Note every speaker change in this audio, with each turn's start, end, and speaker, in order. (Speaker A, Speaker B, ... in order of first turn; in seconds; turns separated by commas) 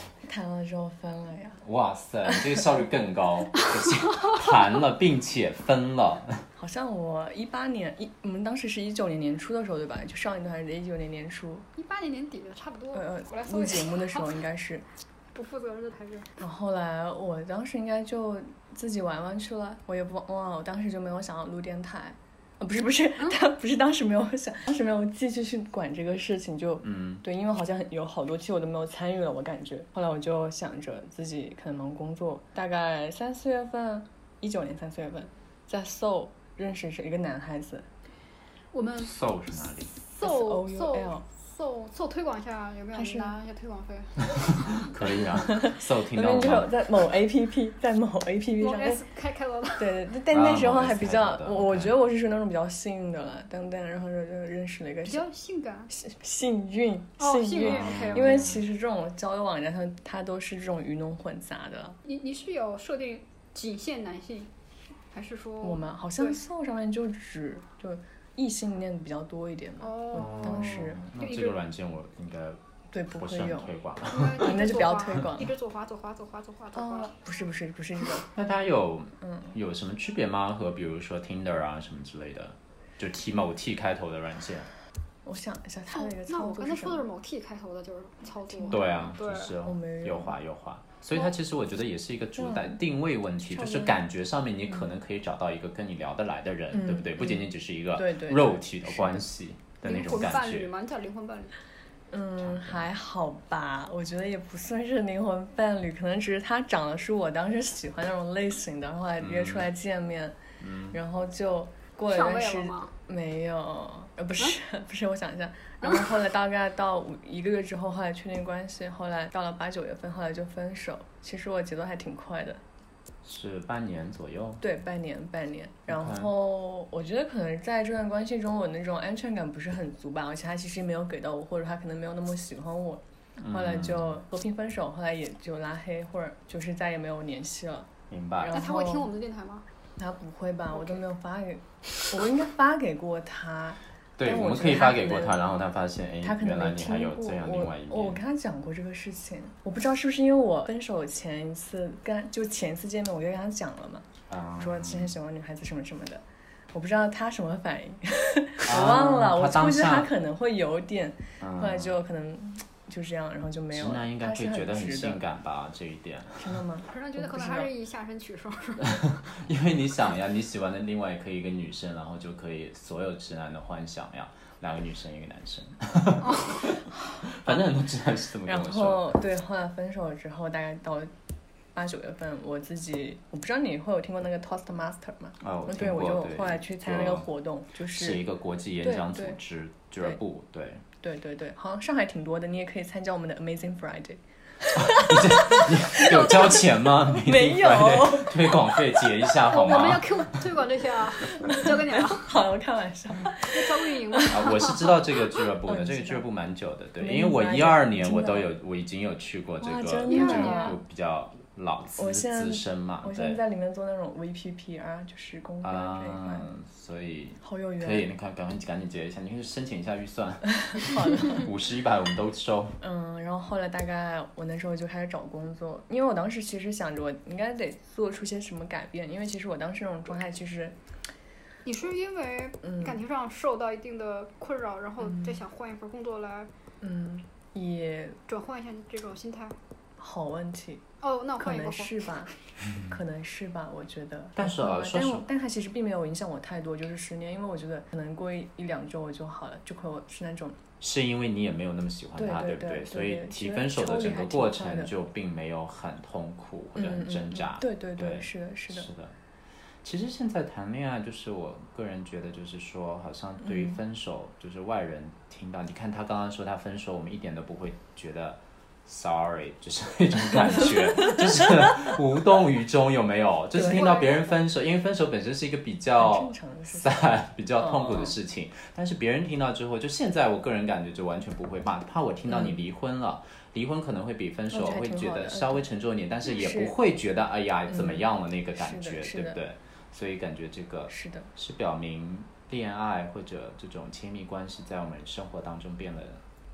Speaker A: 0.2-1.6, Speaker B: 1.6-6.5, Speaker A: 6.6-11.6, Speaker C: 11.7-14.3, Speaker A: 12.9-14.8, Speaker C: 15.3-16.3, Speaker A: 16.4-37.9, Speaker B: 26.8-27.2, Speaker C: 38.7-39.1, Speaker B: 39.0-39.9, Speaker C: 40.0-44.4, Speaker A: 40.2-41.2, Speaker A: 43.0-43.4, Speaker B: 44.5-46.8, Speaker A: 45.4-49.0, Speaker C: 48.6-50.0, Speaker A: 49.8-55.2, Speaker B: 50.3-52.0, Speaker C: 55.0-55.9, Speaker A: 55.9-62.0, Speaker C: 57.2-58.5, Speaker B: 57.6-58.6, Speaker C: 62.0-64.5, Speaker C: 65.1-66.4, Speaker A: 65.6-71.0, Speaker C: 69.8-71.6, Speaker B: 70.1-72.6, Speaker A: 72.9-73.7, Speaker B: 73.1-74.5, Speaker C: 74.1-77.2, Speaker A: 74.3-75.5, Speaker A: 76.7-78.3, Speaker B: 78.3-84.7, Speaker A: 79.2-79.5, Speaker A: 85.2-87.0, Speaker C: 85.9-89.5, Speaker A: 88.5-90.3, Speaker B: 88.7-100.7, Speaker A: 92.4-92.8, Speaker A: 93.4-94.0, Speaker A: 96.7-99.3, Speaker C: 99.8-101.5, Speaker A: 102.1-110.4, Speaker B: 102.4-102.8, Speaker B: 109.2-109.7, Speaker B: 110.6-111.0, Speaker A: 110.9-122.6, Speaker C: 112.1-112.9, Speaker C: 115.8-116.2, Speaker B: 123.2-124.6, Speaker A: 124.6-139.1, Speaker B: 125.9-126.3, Speaker B: 133.4-134.1, Speaker B: 138.1-138.6, Speaker C: 138.5-139.6, Speaker A: 140.0-145.4, Speaker B: 144.2-148.2, Speaker A: 146.2-165.2, Speaker B: 154.3-155.1, Speaker B: 158.6-160.1, Speaker B: 161.4-162.0, Speaker B: 163.7-166.6, Speaker A: 166.4-167.7, Speaker C: 166.9-169.0, Speaker B: 168.9-179.2, Speaker C: 176.2-176.6, Speaker A: 178.4-181.1, Speaker A: 181.7-188.2, Speaker B: 185.4-187.3, Speaker B: 187.9-190.8, Speaker A: 188.8-189.4, Speaker A: 191.0-199.3, Speaker B: 194.8-200.4, Speaker C: 199.5-202.4, Speaker A: 201.4-204.6, Speaker C: 203.4-204.8, Speaker B: 204.3-213.4, Speaker A: 205.6-206.2, Speaker A: 207.0-208.5, Speaker A: 209.6-210.8, Speaker C: 210.1-210.8, Speaker A: 212.0-216.5, Speaker B: 215.6-222.8, Speaker A: 217.4-218.1, Speaker A: 220.7-221.5, Speaker A: 222.8-230.8, Speaker C: 231.6-236.5, Speaker A: 232.6-233.0, Speaker A: 235.1-235.4, Speaker A: 236.8-238.2, Speaker C: 238.3-239.6, Speaker A: 240.0-240.8, Speaker C: 241.0-242.1, Speaker A: 241.4-242.3, Speaker A: 242.8-250.6, Speaker B: 244.3-245.3, Speaker B: 250.8-259.1, Speaker A: 252.2-254.9, Speaker A: 256.8-258.9, Speaker B: 259.8-296.2, Speaker A: 273.5-273.9, Speaker C: 273.7-274.3, Speaker A: 276.0-278.2, Speaker A: 282.3-282.6, Speaker A: 284.5-285.7, Speaker A: 286.2-286.7, Speaker A: 287.7-288.0, Speaker A: 288.6-289.4, Speaker A: 290.9-291.3